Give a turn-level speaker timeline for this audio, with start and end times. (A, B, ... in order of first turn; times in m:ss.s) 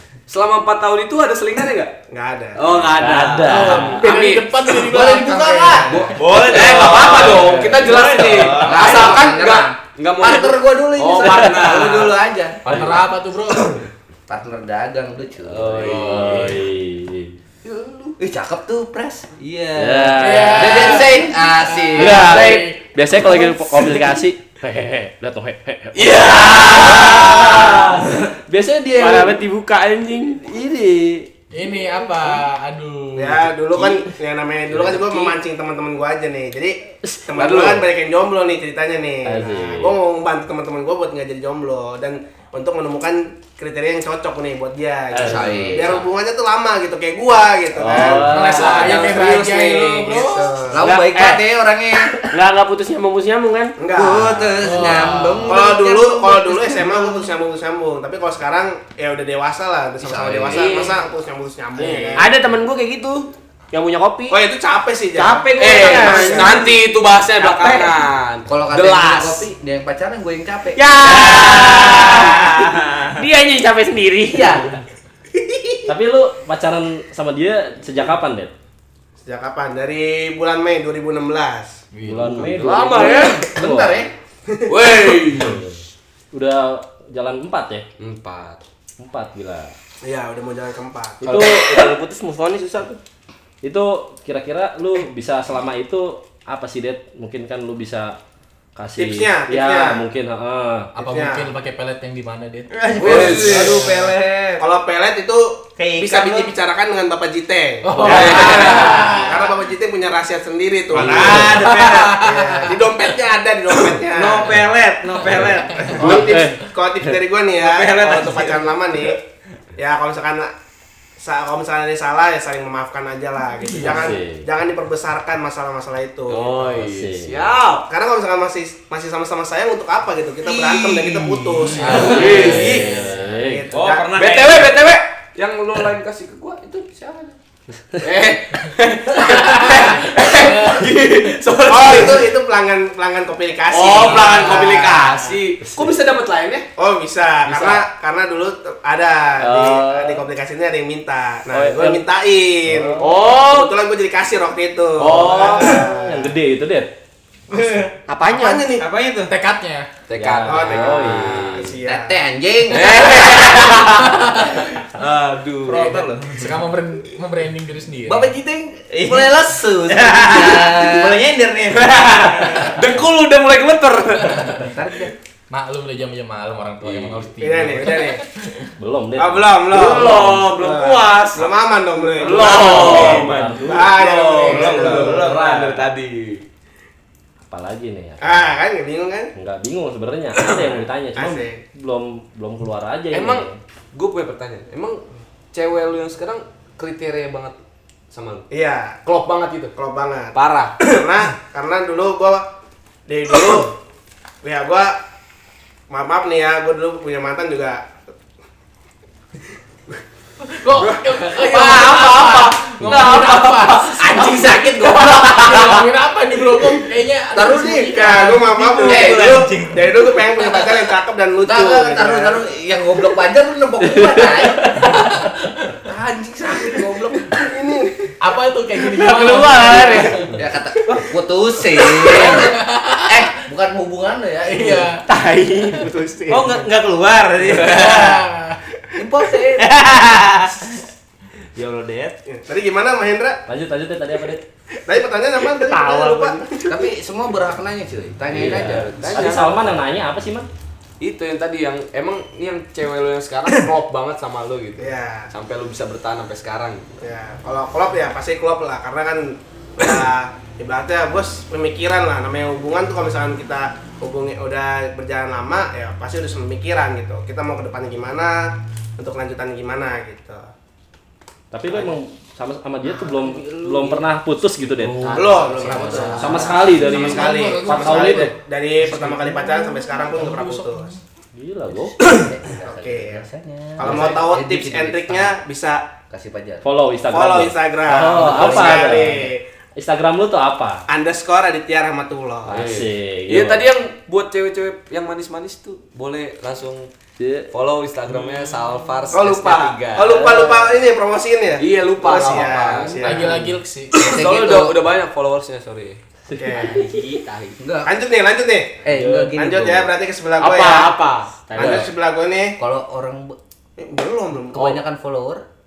0:00.3-0:01.9 A
0:02.1-0:02.9 B
0:02.6-0:04.8 A
0:03.0-0:04.0 C
0:04.0-0:06.2 D
0:04.7-0:06.1 E
0:05.9-0:12.2 A
0:06.1-0:09.2 F
0:08.6-0:12.9 E
0:12.6-0:13.8 D
0:14.3-0:16.3 E
0:15.5-0:16.4 A
0:15.8-0:16.6 D
0:15.8-0:17.4 C
0:17.7-0:18.1 A
0:18.2-0:22.4 E
0:19.8-0:21.0 C
0:20.2-0:24.1 D
0:22.0-0:27.9 C
0:22.0-0:22.7 G
0:26.0-0:27.0 A
0:26.1-0:27.7 D
0:26.6-0:27.9 G
0:28.5-0:29.4 C
0:28.9-0:30.4 G
0:30.5-0:31.2 C
0:31.5-0:33.5 D
0:33.2-0:50.8 B
0:34.7-0:35.4 G
0:37.4-0:37.8 A
0:39.2-0:40.0 C
0:45.1-0:45.8 C
0:45.2-0:46.0 E
0:47.8-0:48.8 C
0:48.2-0:50.5 D
0:48.6-0:49.4 A
0:50.7-0:52.3 E
0:50.8-0:51.4 G
0:52.2-0:53.7 G
0:53.8-0:54.9 B
0:53.9-0:57.3 E
0:54.6-0:55.6 D
0:55.4-1:02.3 B
1:00.0-1:00.9 E
1:00.5-1:00.9 G
1:01.9-1:04.4 G
1:04.3-1:06.8 B
1:05.2-1:06.8 G
1:05.6-1:09.5 A
1:07.6-1:07.8 G
1:08.5-1:11.4 E
1:10.8-1:14.6 G
1:11.4-1:13.1 F
1:14.3-1:14.7 E
1:15.9-1:18.5 C
1:19.2-1:21.8 B
1:21.9-1:22.7 D
1:22.1-1:24.0 C
1:22.3-1:23.5 A
1:22.9-1:24.1 E
1:24.7-1:25.6 A
1:25.4-1:25.8 C
1:26.3-1:27.9 C
1:28.0-1:28.6 A
1:29.0-1:29.7 C
1:30.0-1:31.2 B
1:31.2-1:31.9 C
1:31.2-1:33.0 G
1:33.6-1:38.1 C
1:38.8-1:40.9 C
1:39.0-1:40.0 B
1:40.9-1:44.1 D
1:41.0-1:41.5 B
1:42.7-1:43.7 F
1:42.9-1:59.2 B
1:43.0-1:44.0 A
1:45.8-1:46.5 F
1:47.8-1:49.6 D
1:48.0-1:49.1 A
1:48.1-1:49.2 G
1:50.9-1:52.2 F
1:50.9-1:53.2 D
1:53.7-1:54.0 D
1:54.1-1:56.2 F
1:55.2-1:56.4 D
1:56.0-1:56.6 C
1:57.6-1:59.1 F
1:59.8-2:00.5 B
2:01.2-2:06.5 B
2:03.6-2:04.2 D
2:03.8-2:04.4 C
2:06.3-2:07.9 A
2:06.7-2:07.4 C
2:07.9-2:14.2 B
2:10.4-2:13.4 A
2:11.6-2:12.3 D
2:12.0-2:13.7 C
2:12.2-2:12.6 E
2:13.7-2:14.8 F
2:14.1-2:17.4 A
2:18.0-2:22.3 A
2:19.6-2:20.8 D
2:21.6-2:25.2 B
2:23.7-2:26.7 A
2:24.0-2:25.1 G
2:25.6-2:25.9 C
2:26.8-2:36.3 B
2:27.4-2:27.9 A
2:29.4-2:30.2 C
2:31.5-2:32.0 C
2:32.7-2:33.0 C
2:33.0-2:33.7 A
2:33.2-2:33.7 G
2:35.0-2:35.9 A
2:35.7-2:36.9 C
2:37.5-2:37.9 F
2:38.1-2:38.7 G
2:38.2-2:38.9 B
2:38.8-2:39.3 F
2:39.3-2:39.9 D
2:40.1-2:41.6 A
2:40.1-2:41.7 C
2:40.4-2:42.2 B
2:41.8-2:44.0 E
2:42.7-2:44.1 A
2:44.1-2:44.7 D
2:45.0-2:46.6 F
2:45.7-2:48.3 D
2:48.1-2:51.2 E
2:48.9-2:52.8 F
2:52.7-2:54.6 A
2:54.3-2:54.7 D
2:54.6-2:55.1 E
2:55.5-2:58.7 D
2:56.9-2:57.1 A
2:57.4-2:58.2 B
2:58.8-2:59.6 C
2:59.2-3:05.3 B
2:59.4-3:01.5 A
3:02.1-3:06.4 A
3:02.2-3:03.9 C
3:04.4-3:05.9 F
3:07.5-3:08.4 C
3:08.2-3:09.3 B
3:09.4-3:13.6 C
3:10.6-3:11.6 B
3:13.1-3:17.6 A
3:18.1-3:18.4 A
3:18.5-3:19.0 B
3:19.0-3:19.7 A
3:19.8-3:22.4 B
3:20.3-3:20.9 A
3:23.1-3:23.7 B
3:24.4-3:24.9 B
3:25.9-3:27.8 B
3:30.4-3:34.3 D
3:31.3-3:35.9 G
3:34.0-3:35.5 E
3:35.3-3:40.6 D
3:37.4-3:42.4 B
3:38.8-3:39.4 E
3:41.4-3:45.0 E
3:43.9-3:44.9 C
3:44.8-3:45.8 D
3:45.9-3:47.5 E
3:47.5-3:47.9 B
3:48.2-3:50.3 D
3:48.9-3:50.3 G
3:50.4-3:54.9 E
3:52.1-3:53.2 D
3:54.4-3:55.0 D
3:55.1-3:56.6 G
3:56.3-3:58.3 F
3:57.4-3:58.6 D
3:59.0-4:00.0 E
3:59.6-4:00.7 F
4:01.6-4:02.2 F
4:02.3-4:03.4 B
4:03.5-4:04.4 C
4:04.9-4:06.6 B
4:05.5-4:06.9 G
4:06.7-4:09.4 E
4:08.4-4:09.8 A
4:08.4-4:10.5 C
4:11.0-4:16.9 A
4:14.8-4:15.3 B
4:17.0-4:30.5 B
4:31.5-4:35.1 C
4:33.1-4:34.0 E
4:34.6-4:41.0 D
4:35.0-4:36.2 G
4:35.1-4:40.9 B
4:35.2-4:36.7 E
4:36.2-4:38.4 C
4:41.4-4:42.0 C
4:41.7-4:45.4 E
4:42.5-4:45.9 B
4:46.1-4:46.6 E
4:46.6-4:49.2 C
4:47.1-4:49.4 B
4:48.2-4:49.0 E
4:49.8-4:50.8 C
4:50.9-4:52.7 B
4:52.4-4:53.6 C
4:52.5-4:56.9 A
4:57.2-4:57.5 C
4:57.5-5:00.6 A
4:59.1-5:03.3 B
5:01.6-5:06.0 A
5:03.0-5:04.0 D
5:03.9-5:04.8 E
5:06.3-5:07.0 C
5:06.4-5:06.8 B
5:06.8-5:07.5 A
5:07.6-5:07.9 E
5:07.8-5:10.9 B
5:08.8-5:09.9 E
5:08.9-5:09.3 A
5:10.4-5:11.9 G
5:11.5-5:12.6 B
5:12.6-5:13.4 E
5:13.8-5:14.7 B
5:14.5-5:15.4 E